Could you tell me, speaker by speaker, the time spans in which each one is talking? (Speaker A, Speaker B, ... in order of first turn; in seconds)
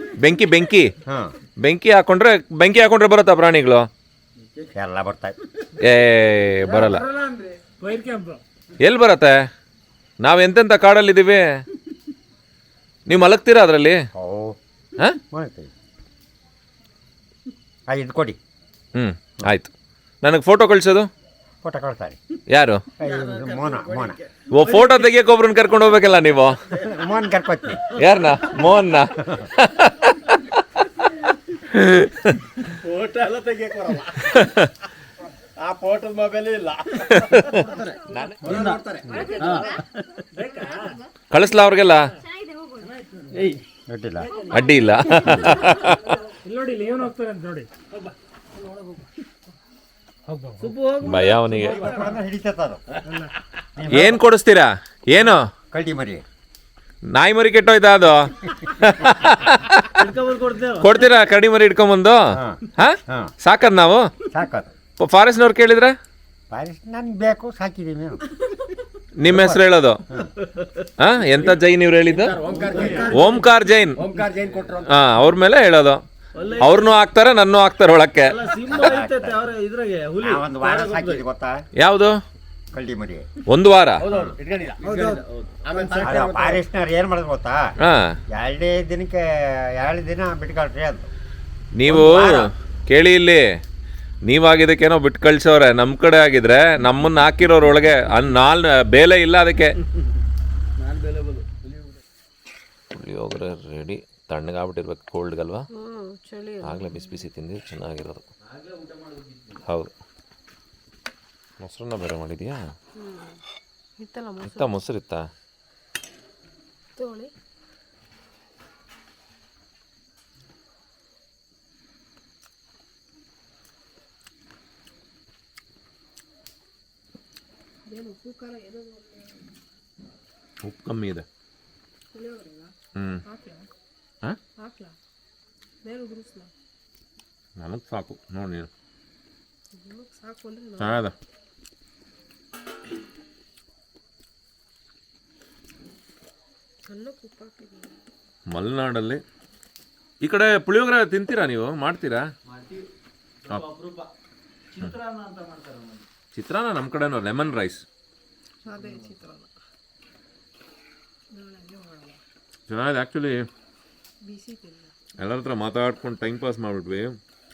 Speaker A: 0.1-0.9, 1.6-3.9, 5.8-7.1, 8.8-9.5, 10.2-11.5, 13.1-14.0, 18.9-19.7, 20.2-21.1, 22.5-22.8, 24.5-26.6, 28.0-30.9, 31.7-32.5, 34.4-34.7, 37.3-38.5, 41.3-42.1, 44.5-46.2, 51.0-51.9, 53.9-55.5, 57.1-60.0, 60.8-64.1, 65.0-66.0, 69.2-70.0, 71.0-72.4, 73.1-74.0, 74.9-76.0, 76.6-78.4, 81.8-82.2, 83.5-84.1, 87.8-88.2, 91.8-93.5, 94.3-99.8, 102.9-105.7, 106.6-108.2, 109.7-109.9, 111.6-112.7, 114.4-115.3, 130.6-131.3, 132.9-133.2, 137.6-138.7, 140.8-141.1, 148.5-149.2, 150.2-152.3, 156.3-157.8, 162.7-163.5, 165.2-167.2
Speaker B: 1.1-1.3, 4.7-5.4, 14.2-14.6, 15.3-15.7, 17.9-18.4, 21.6-22.2, 23.0-24.2, 26.8-27.9, 43.9-44.3, 51.5-52.8, 53.8-54.2, 55.7-56.2, 62.3-63.3, 64.3-64.7, 66.5-68.2, 69.3-70.3, 78.7-79.4, 80.2-81.6, 82.7-83.3, 84.0-84.3, 86.0-87.7, 88.3-91.1, 91.9-92.5
Speaker C: 6.7-7.5, 23.0-25.1, 32.7-34.5, 35.6-37.8, 38.4-39.6, 72.1-74.9, 84.0-86.6
Speaker D: 7.7-8.4, 40.3-41.0, 42.8-43.3, 44.3-44.7, 46.3-48.1, 48.6-49.0, 50.3-50.7, 53.1-53.3
Speaker E: 37.5-38.8, 39.4-40.3, 43.3-43.6, 50.6-51.9, 59.9-61.1, 70.4-70.9, 72.5-73.2, 76.3-76.9, 78.3-81.2, 84.8-86.1, 100.8-102.0, 108.4-109.6, 152.5-152.9, 153.4-154.1, 154.7-156.1, 158.7-159.1
Speaker F: 39.1-39.9, 40.7-41.0, 42.2-42.9, 44.4-45.9, 105.7-107.3, 113.0-113.4, 114.0-114.8, 117.0-117.3, 127.9-129.6, 132.1-132.7, 133.2-133.7, 134.6-135.0, 135.8-136.5, 139.7-141.0, 146.9-148.0, 158.6-159.5, 161.3-162.2, 164.2-165.1